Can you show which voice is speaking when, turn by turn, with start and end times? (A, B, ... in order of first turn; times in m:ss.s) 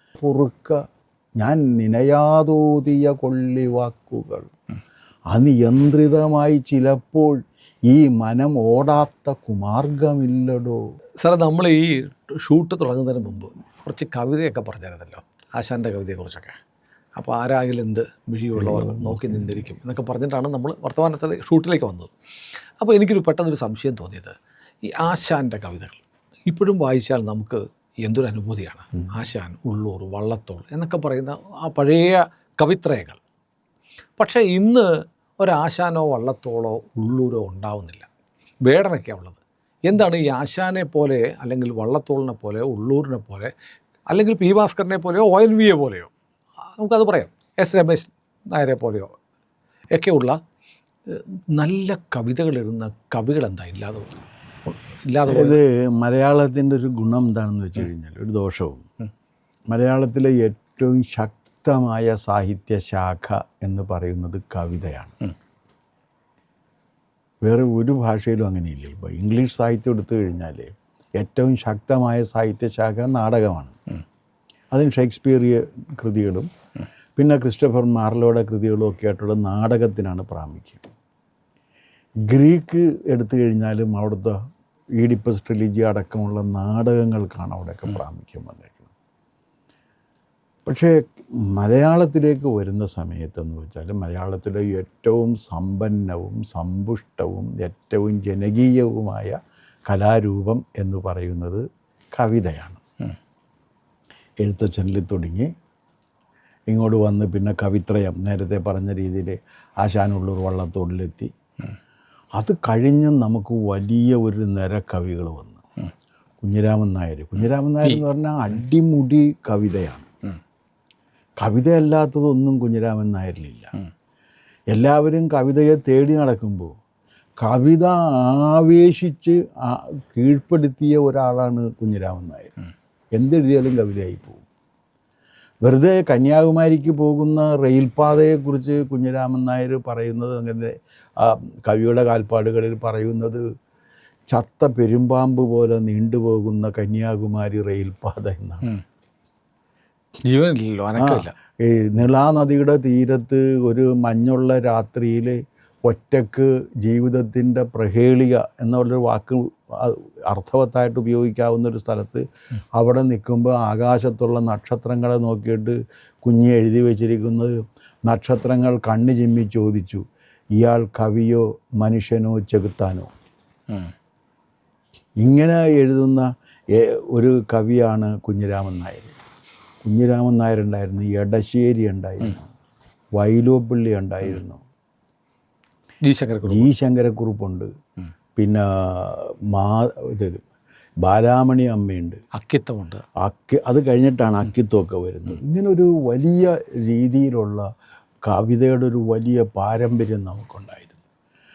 0:00.2-0:00.8 A
0:01.4-0:04.5 A
0:05.3-0:10.8 A
0:11.2-0:16.6 B
0:17.2-0:22.1 B
0:18.6-0:19.6 A
0:22.8-0:24.4 B
0:24.9-0:33.2 B
0:34.2-0:38.1 B
0:38.6-0:43.5 B
0:44.1-0:46.1 B
0:46.7-0:49.1 B
0:49.9-0:50.4 B
0:51.1-0:55.6 B
0:55.3-0:58.8 A
0:59.7-1:05.2 A
1:07.4-1:13.8 A
1:14.7-1:16.5 A
1:17.2-1:20.9 A
1:22.3-1:24.4 A
1:25.0-1:28.9 A
1:30.7-1:41.6 A
1:42.2-1:42.8 A
1:44.4-1:45.5 A
1:46.7-1:51.3 A
1:52.4-1:55.6 A
1:56.4-2:00.1 A
2:01.4-2:03.7 A
2:04.7-2:06.8 A
2:07.4-2:12.5 A
2:13.2-2:14.4 A
2:15.6-2:23.4 A
2:24.3-2:28.7 A
2:30.2-2:31.3 B
2:31.0-2:50.0 A
2:50.6-2:53.1 A
2:55.2-2:59.2 A
2:59.8-3:02.5 A
3:03.2-3:04.6 A
3:06.0-3:06.7 B
3:06.4-3:07.7 A
3:08.4-3:10.4 A
3:11.0-3:12.2 A
3:12.3-3:13.0 B
3:13.2-3:17.7 A
3:18.2-3:21.0 A